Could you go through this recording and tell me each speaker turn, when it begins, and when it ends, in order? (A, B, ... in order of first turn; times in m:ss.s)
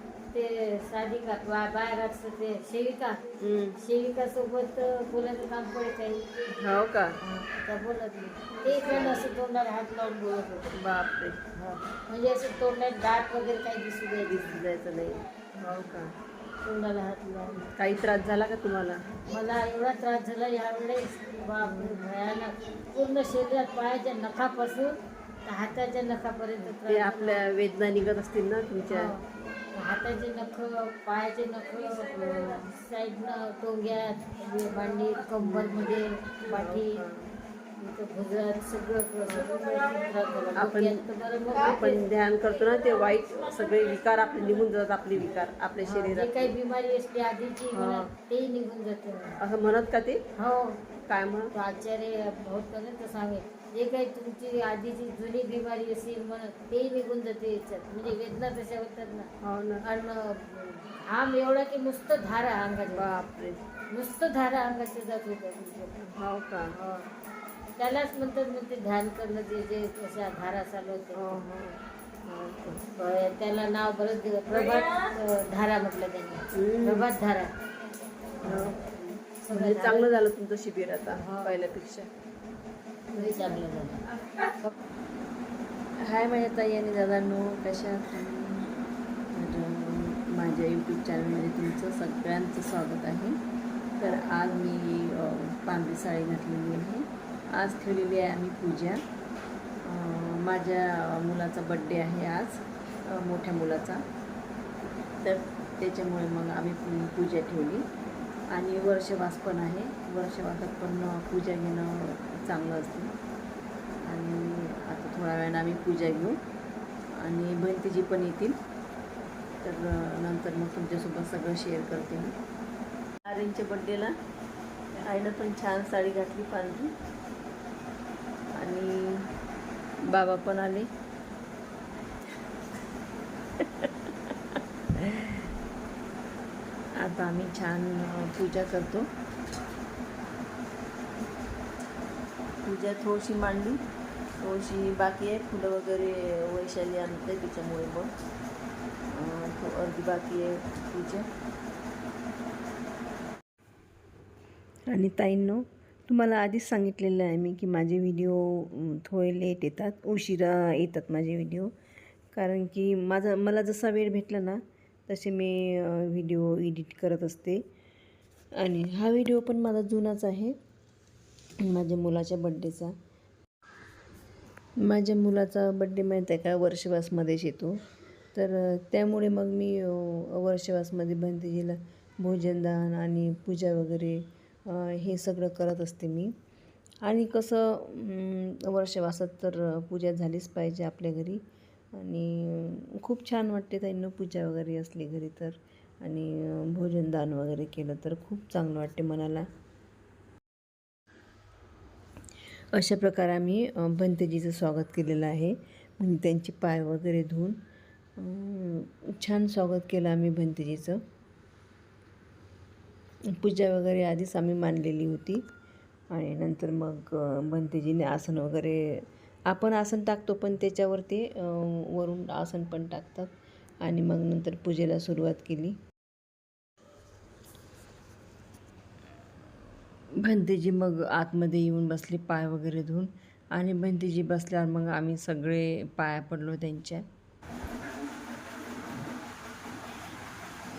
0:00.3-0:03.2 A
0:03.4-0:03.8 B
0:03.8-0:06.3 A
0:06.6-0:07.2 B
0:07.2-0:10.7 A
0:08.6-0:09.3 B
0:10.7-0:11.4 B
0:11.5-0:14.6 A
0:14.2-0:16.1 B
0:16.6-0:17.7 A
0:17.7-0:19.0 B
0:19.3-0:27.4 A
0:21.6-0:22.1 B
0:26.6-0:29.1 B
0:28.9-0:37.0 A
0:35.4-0:35.8 B
0:36.5-0:37.3 B
0:37.8-0:42.0 A
0:40.5-0:41.0 B
0:41.6-0:46.5 B
0:45.8-0:49.4 A
0:47.7-0:48.1 B
0:49.4-0:50.2 B
0:50.4-0:50.8 A
0:51.1-0:51.5 B
0:51.5-0:59.3 A
0:59.4-0:59.8 B
0:59.8-1:03.0 A
1:02.9-1:03.6 B
1:03.9-1:06.0 A
1:06.0-1:06.7 B
1:06.7-1:07.1 A
1:07.8-1:11.4 A
1:11.2-1:12.8 B
1:12.9-1:17.5 A
1:16.5-1:17.0 B
1:18.4-1:18.8 A
1:18.4-1:22.1 B
1:19.4-1:20.1 A
1:21.2-1:21.6 A
1:23.2-1:24.0 A
1:26.0-1:33.4 B
1:34.0-1:39.0 B
1:39.8-1:44.0 B
1:45.2-1:47.8 B
1:48.5-1:53.1 B
1:54.0-1:56.4 B
1:57.1-1:58.6 B
1:59.6-2:02.3 B
2:03.2-2:04.1 B
2:04.9-2:06.9 B
2:08.5-2:09.3 B
2:10.1-2:10.9 B
2:13.6-2:14.1 B
2:15.0-2:15.5 B
2:17.0-2:19.1 B
2:22.6-2:23.8 B
2:24.4-2:28.1 B
2:29.1-2:31.3 B
2:34.9-2:41.7 B
2:42.3-2:47.6 B
2:48.6-2:50.5 B
2:51.6-2:52.9 B
2:54.8-2:57.8 B
2:58.3-3:06.3 B
3:07.0-3:11.4 B
3:11.9-3:19.4 B
3:22.7-3:27.6 B
3:28.2-3:31.0 B
3:33.3-3:35.4 B
3:36.1-3:43.3 B
3:43.8-3:45.8 B
3:50.2-3:57.0 B